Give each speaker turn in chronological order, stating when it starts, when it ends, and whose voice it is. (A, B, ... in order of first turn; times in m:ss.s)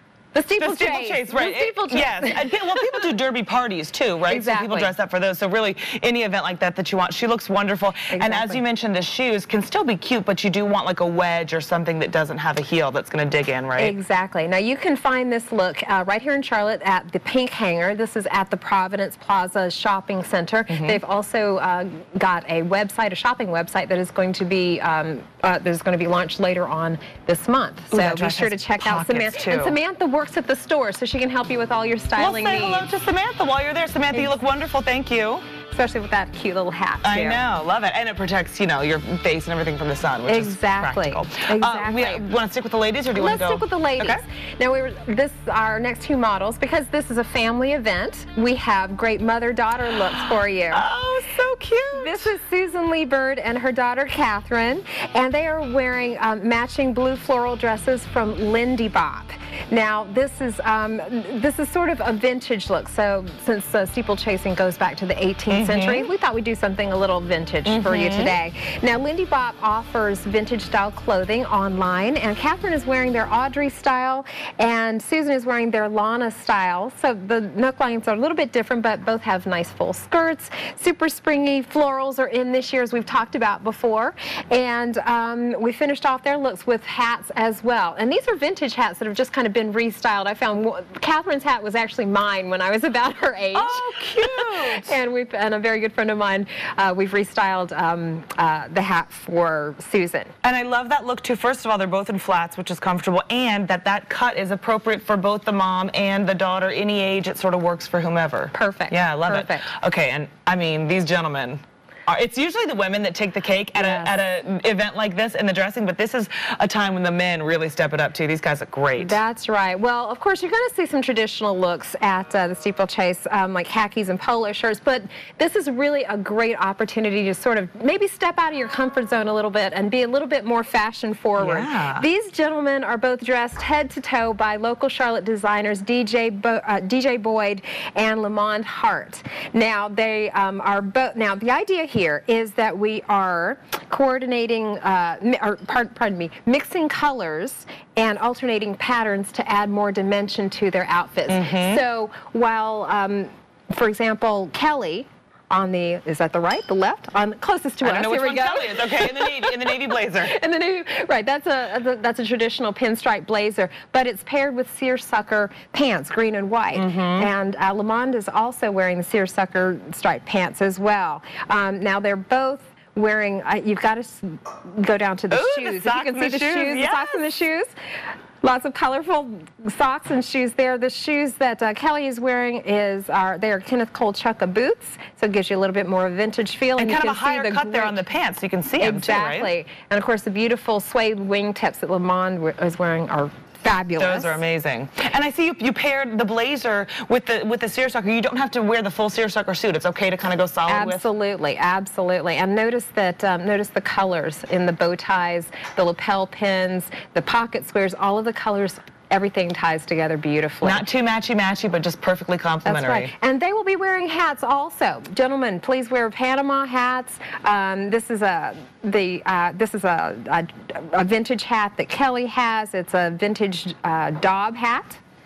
0:00.3-0:03.0 A
0:00.6-0:13.9 B
0:04.3-0:04.9 A
0:08.1-0:08.6 A
0:13.8-0:32.9 A
0:20.7-0:21.0 B
0:27.9-0:29.8 B
0:32.2-0:35.4 B
0:34.1-0:34.4 A
0:35.7-0:37.4 A
0:37.0-0:44.2 B
0:40.3-0:42.2 A
0:43.1-0:50.8 A
0:50.1-0:52.3 B
0:51.9-1:40.3 A
1:05.5-1:06.0 B
1:07.6-1:08.4 B
1:33.5-1:35.0 B
1:40.4-1:59.2 B
1:48.5-1:49.7 A
1:53.7-1:54.2 A
1:59.0-2:57.7 A
2:11.4-2:12.0 B
2:31.3-2:31.8 B
2:37.8-2:40.3 B
2:46.7-2:47.3 B
2:55.3-2:57.3 B
2:58.4-3:08.0 A
3:06.8-3:09.5 B
3:08.8-3:14.4 A
3:14.0-3:21.0 B
3:20.7-3:30.8 A
3:30.6-3:33.1 B
3:32.6-3:45.0 A